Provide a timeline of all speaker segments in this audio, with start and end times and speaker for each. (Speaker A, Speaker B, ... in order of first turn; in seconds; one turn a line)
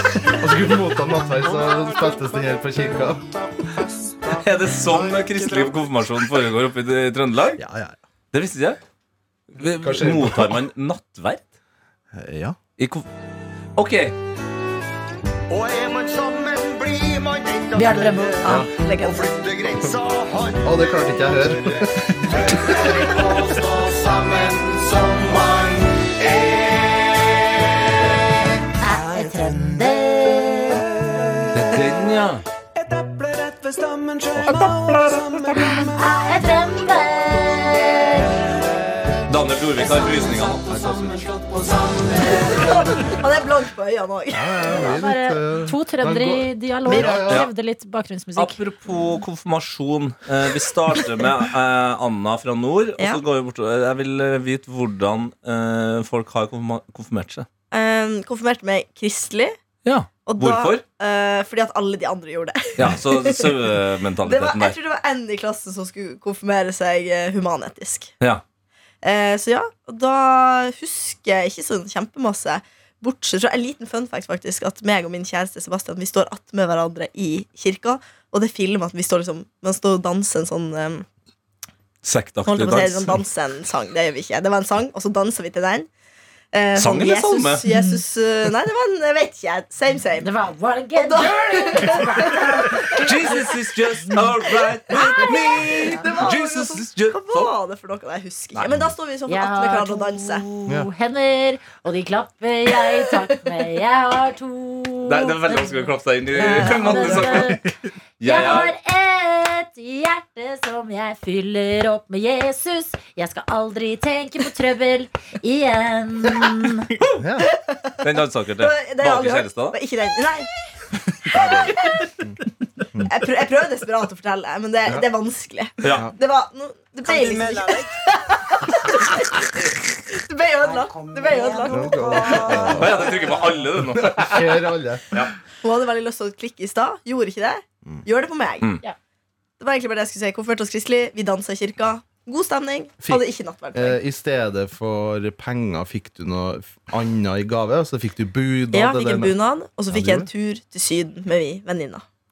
Speaker A: 0.2-3.3
Speaker B: 1.4-6.3
Speaker C: 4.3-7.6
Speaker A: 7.6-8.0
Speaker C: 8.3-8.8
Speaker C: 9.5-11.4
Speaker A: 9.7-10.6
Speaker A: 12.1-12.6
Speaker C: 12.8-13.0
Speaker C: 13.8-14.2
Speaker B: 15.5-28.2
Speaker D: 17.8-18.5
Speaker E: 18.4-19.4
Speaker A: 20.6-22.8
Speaker D: 28.8-30.8
Speaker C: 31.5-32.4
Speaker B: 32.8-43.1
Speaker A: 34.4-34.9
Speaker D: 36.0-38.4
Speaker C: 39.3-40.6
Speaker A: 40.7-41.3
Speaker E: 42.5-44.9
Speaker A: 44.3-47.5
Speaker D: 44.7-48.6
Speaker E: 46.9-47.1
Speaker C: 48.4-57.5
Speaker E: 57.7-59.5
Speaker C: 59.9-60.8
Speaker E: 60.2-68.1
Speaker C: 62.8-64.8
Speaker E: 69.0-81.0
Speaker C: 82.0-83.2
Speaker E: 82.5-85.9
Speaker E: 86.5-90.3
Speaker C: 86.8-87.6
Speaker D: 87.7-88.0
Speaker D: 90.2-93.1
Speaker E: 90.9-93.5
Speaker C: 93.0-97.5
Speaker E: 94.6-100.5
Speaker D: 99.3-107.6
Speaker C: 105.0-107.6
Speaker E: 106.3-107.4
Speaker C: 108.2-108.7
Speaker D: 108.2-116.9
Speaker A: 117.2-117.5
Speaker E: 117.4-118.0
Speaker C: 118.0-119.8
Speaker E: 118.6-120.5
Speaker E: 121.3-122.1
Speaker A: 121.3-122.4
Speaker E: 123.1-129.5
Speaker B: 127.0-128.0
Speaker E: 130.1-132.8
Speaker B: 130.6-133.7
Speaker A: 131.7-133.2
Speaker C: 132.7-135.3
Speaker A: 133.8-135.0
Speaker E: 135.6-138.8
Speaker E: 139.6-144.0
Speaker A: 143.7-149.3
Speaker E: 148.7-152.0
Speaker A: 149.9-150.3